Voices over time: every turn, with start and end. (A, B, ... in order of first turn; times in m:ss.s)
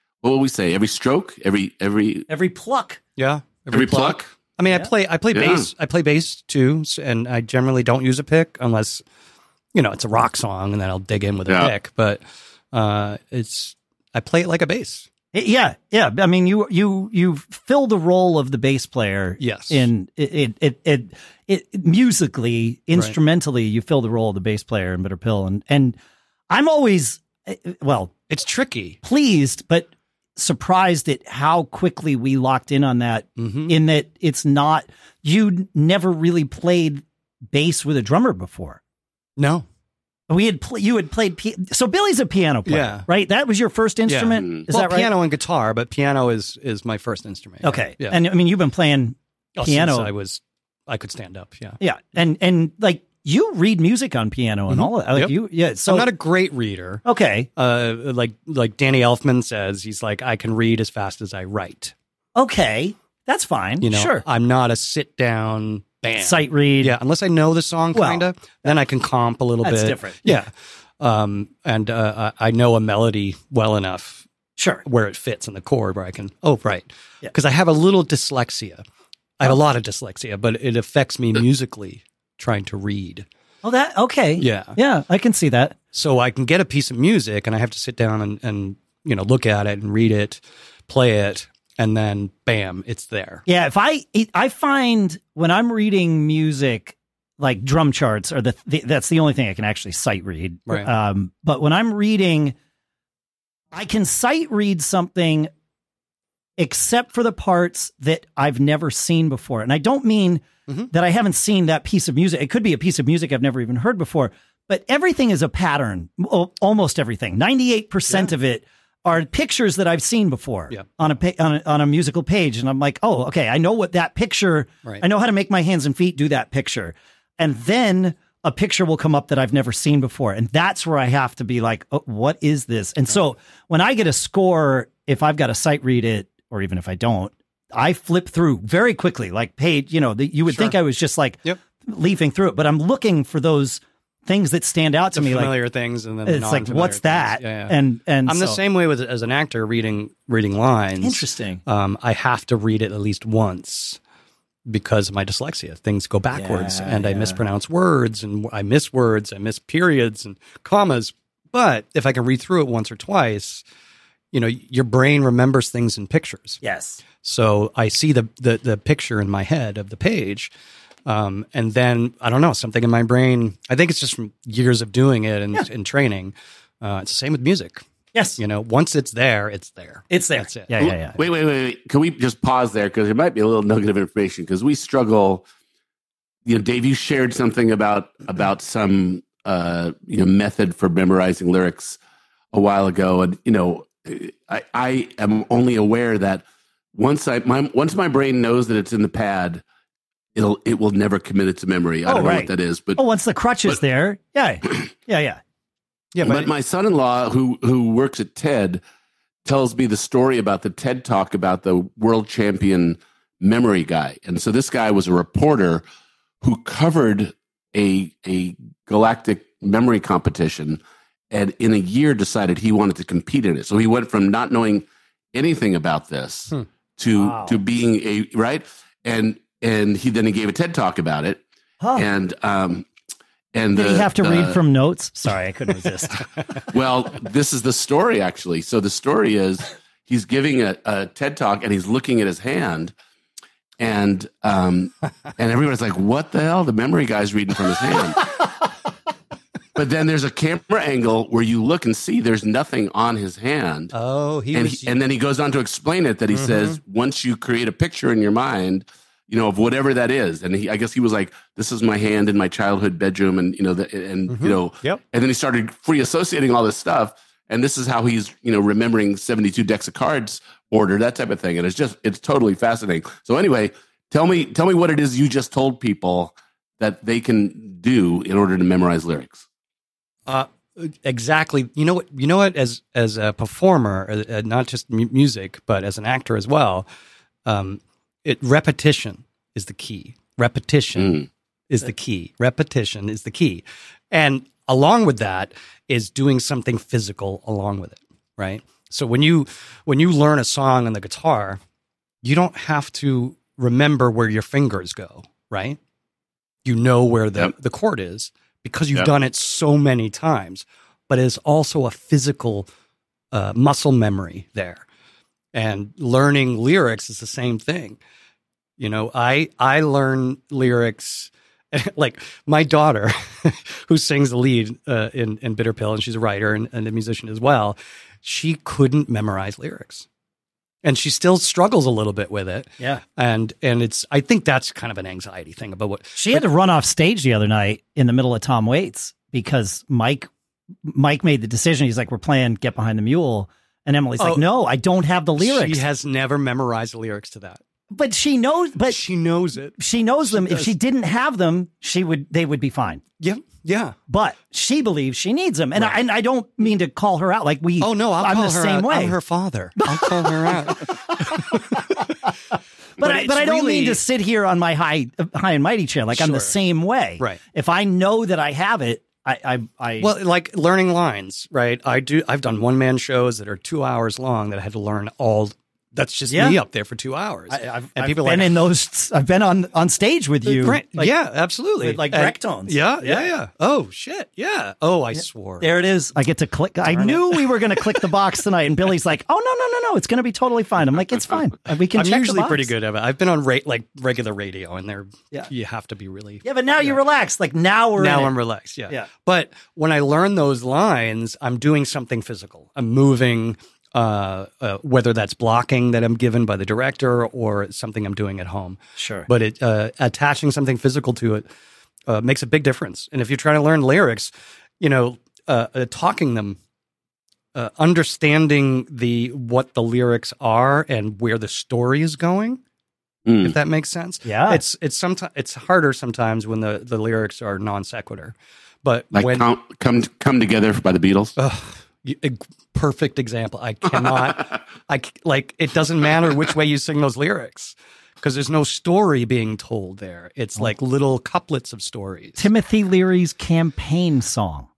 0:00.2-0:02.3 A
0:02.3-0:03.0 B
0:03.2-0:09.0 C
0:03.7-0:04.2 A
0:05.3-0:05.7 A
0:09.7-0:15.1 C
0:11.5-0:11.7 A
0:15.3-0:26.0 B
0:19.4-0:19.9 C
0:26.5-0:28.2 B
0:28.3-0:29.0 C
0:29.0-0:38.8 B
0:33.4-0:33.7 C
0:39.4-0:39.6 C
0:40.3-0:45.1 B
0:42.7-0:43.1 C
0:44.1-0:48.2 C
0:47.6-0:50.1 B
0:49.6-0:51.8 C
0:51.8-0:56.1 B
0:54.7-0:55.3 C
0:55.8-0:57.0 C
0:57.0-0:57.5 B
0:57.6-1:01.9 C
1:02.4-1:04.2 B
1:03.8-1:14.2 C
1:06.2-1:07.0 B
1:07.9-1:08.7 B
1:09.6-1:10.3 B
1:14.6-1:14.8 B
1:14.8-1:18.8 C
1:19.4-1:23.2 C
1:23.6-1:25.8 B
1:24.4-1:24.8 C
1:25.9-1:33.4 C
1:33.4-1:42.6 B
1:43.7-1:45.5 B
1:46.6-2:25.6 B
2:20.5-2:20.8 C
2:25.1-2:34.0 C
2:26.2-2:28.6 B
2:31.0-2:31.6 B
2:34.7-2:43.6 C
2:36.3-2:37.4 B
2:44.3-2:46.6 C
2:46.6-2:47.0 B
2:47.2-2:50.5 C
2:51.1-2:57.8 C
2:58.4-3:00.8 C
3:00.1-3:01.2 B
3:00.8-3:05.4 A
3:06.4-3:12.0 A
3:12.5-3:16.4 A
3:16.9-3:19.6 A
3:20.3-3:23.0 A
3:22.1-3:25.4 B
3:26.1-3:26.5 C
3:26.2-3:28.8 A
3:29.4-3:35.8 A
3:36.4-3:51.4 A
3:47.1-3:47.6 B
3:51.8-3:52.1 B
3:52.0-3:52.9 A
3:53.5-3:54.6 A
3:53.7-3:56.2 B
3:56.7-4:02.9 A
4:03.8-4:08.2 A
4:09.8-4:13.9 A
4:13.9-4:15.0 C
4:14.5-4:39.4 A
4:16.4-4:16.8 C
4:24.3-4:25.0 C
4:40.3-4:46.8 C
4:47.4-5:01.6 C
5:02.2-5:05.8 C
5:06.6-5:12.6 C
5:13.3-5:14.8 C
5:15.5-5:18.0 C
5:18.8-5:30.0 C
5:30.8-5:36.4 C
5:36.2-5:40.3 B
5:40.8-5:45.8 B
5:44.2-5:44.5 C
5:45.4-5:47.6 C
5:47.9-5:49.0 B
5:48.9-5:50.7 C
5:49.8-5:53.0 B
5:53.2-5:54.0 C
5:54.1-5:59.2 B
5:57.8-6:02.1 C
5:59.8-6:02.1 B
6:03.0-6:04.0 C
6:03.0-6:10.1 B
6:06.1-6:06.6 C
6:10.0-6:18.6 C
6:16.3-6:16.6 B
6:17.5-6:21.1 B
6:20.4-6:25.7 C
6:21.8-6:23.3 B
6:25.6-6:32.7 B
6:26.9-6:27.4 C
6:31.9-6:37.0 C
6:36.4-6:38.3 B
6:38.0-6:51.4 C
6:49.0-6:49.3 B
6:52.1-6:56.6 C
6:57.6-7:02.6 C
7:03.3-7:03.5 A
7:03.4-7:09.5 C
7:04.2-7:04.6 B
7:09.1-7:11.3 A
7:11.4-7:22.4 C
7:22.4-7:24.7 B